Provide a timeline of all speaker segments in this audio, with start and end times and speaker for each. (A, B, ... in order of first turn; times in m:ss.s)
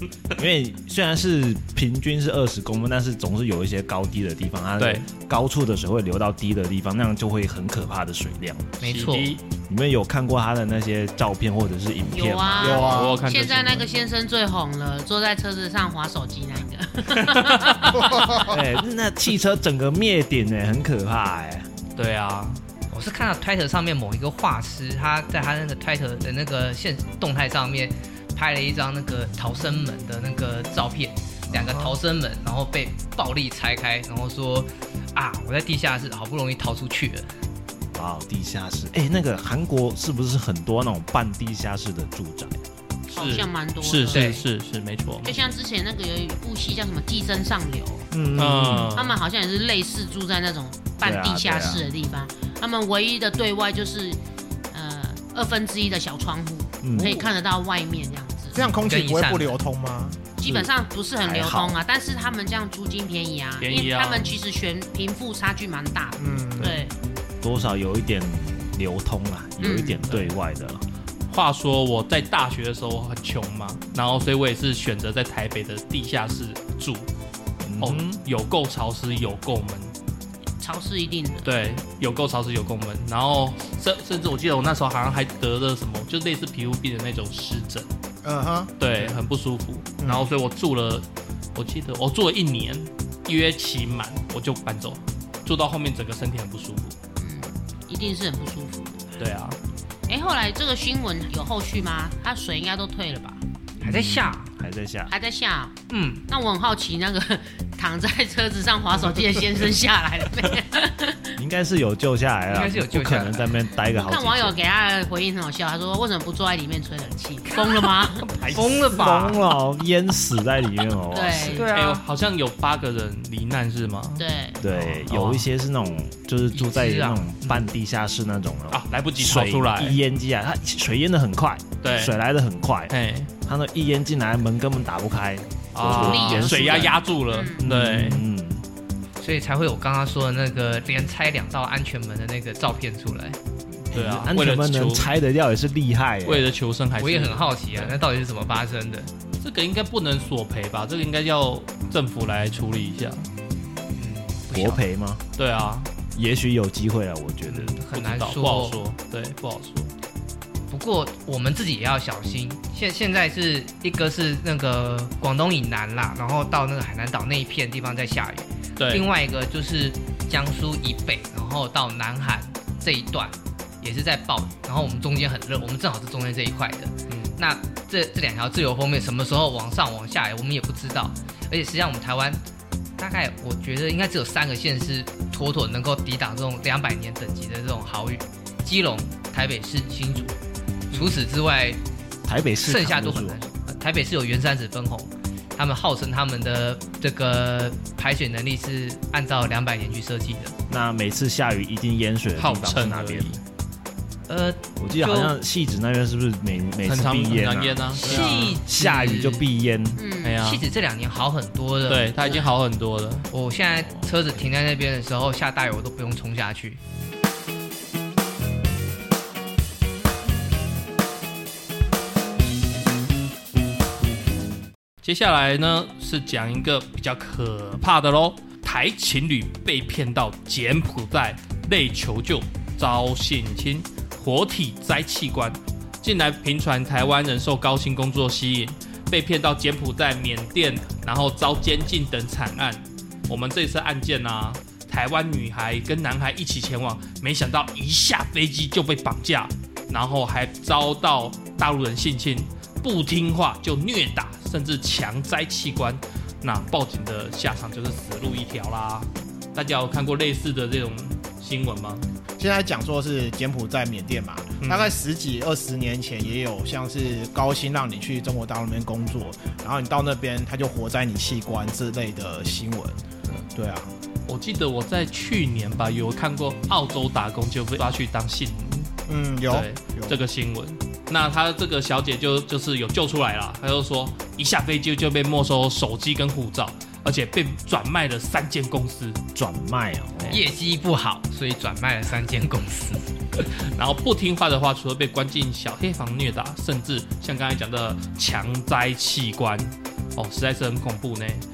0:00.4-0:08.8 A
0:04.8-0:05.1 B
0:08.8-0:09.4 C
0:08.8-0:09.4 B
0:09.7-0:13.0 A
0:12.1-0:18.5 D
0:12.6-0:13.2 E
0:12.8-0:13.8 B
0:17.4-0:17.8 B
0:17.9-0:18.5 E
0:18.4-0:21.7 A
0:22.0-0:22.6 B
0:22.9-0:37.3 C
0:31.5-0:32.0 A
0:38.0-0:42.6 A
0:43.1-0:45.4 B
0:43.1-0:44.3 D
0:44.1-0:44.4 C
0:45.2-0:48.1 D
0:48.1-0:49.0 A
0:48.4-0:49.2 B
0:48.9-0:54.2 D
0:51.0-0:51.8 A
0:54.7-0:58.6 D
0:56.8-0:57.3 A
0:58.5-1:00.3 E
0:58.8-0:59.6 C
1:00.4-1:06.9 D
1:01.2-1:01.8 A
1:03.6-1:04.3 B
1:06.2-1:06.8 E
1:07.4-1:10.8 A
1:09.6-1:10.0 D
1:10.1-1:10.3 B
1:11.3-1:17.1 B
1:17.6-1:18.2 A
1:17.8-1:19.9 B
1:20.6-1:21.5 D
1:21.4-1:27.9 B
1:28.2-1:29.2 E
1:28.8-1:31.0 B
1:30.0-1:30.3 E
1:31.6-1:37.0 B
1:37.2-1:39.0 D
1:39.2-1:39.6 B
1:40.1-1:43.4 D
1:43.8-1:44.5 C
1:43.8-1:45.1 A
1:45.1-1:45.8 D
1:45.9-1:46.2 C
1:46.3-1:51.3 D
1:51.4-1:54.6 A
1:52.5-1:53.6 C
1:53.9-1:58.3 D
1:58.2-1:59.0 B
1:58.5-1:59.4 C
1:58.8-2:01.6 A
2:01.1-2:01.7 D
2:01.5-2:02.0 C
2:01.7-2:04.2 B
2:04.2-2:04.6 D
2:04.6-2:12.9 A
2:05.0-2:05.5 B
2:06.5-2:07.7 C
2:08.7-2:10.0 B
2:11.8-2:12.2 B
2:12.9-2:13.3 B
2:13.5-2:17.0 A
2:15.7-2:18.2 B
2:15.9-2:17.6 D
2:17.6-2:18.6 A
2:19.2-2:23.4 C
2:23.9-2:25.1 B
2:23.9-2:26.5 A
2:26.2-2:28.0 B
2:27.0-2:29.1 C
2:29.4-2:33.3 B
2:34.0-2:34.8 C
2:34.5-2:35.2 A
2:35.4-2:35.9 B
2:36.2-2:37.7 A
2:37.5-2:38.8 C
2:37.5-2:39.9 B
2:40.7-3:02.4 C
2:48.8-2:49.1 B
2:57.1-2:57.4 B
3:03.0-3:10.4 C
3:10.9-3:11.8 C
3:12.3-3:13.4 A
3:12.6-3:20.6 C
3:20.7-3:23.3 A
3:22.4-3:23.4 B
3:24.3-3:25.4 C
3:24.8-3:30.0 A
3:26.8-3:28.6 B
3:28.0-3:29.4 C
3:30.0-3:30.4 D
3:30.2-3:30.6 B
3:30.4-3:32.4 C
3:31.9-3:33.3 B
3:33.3-3:36.8 C
3:45.0-4:22.1 B
4:22.4-4:33.0 E
4:24.6-4:24.9 B
4:33.6-4:33.9 E
4:34.3-4:38.9 B
4:39.1-4:40.2 E
4:39.5-4:49.2 B
4:49.4-4:50.4 A
4:50.3-4:53.1 C
4:53.4-5:01.5 B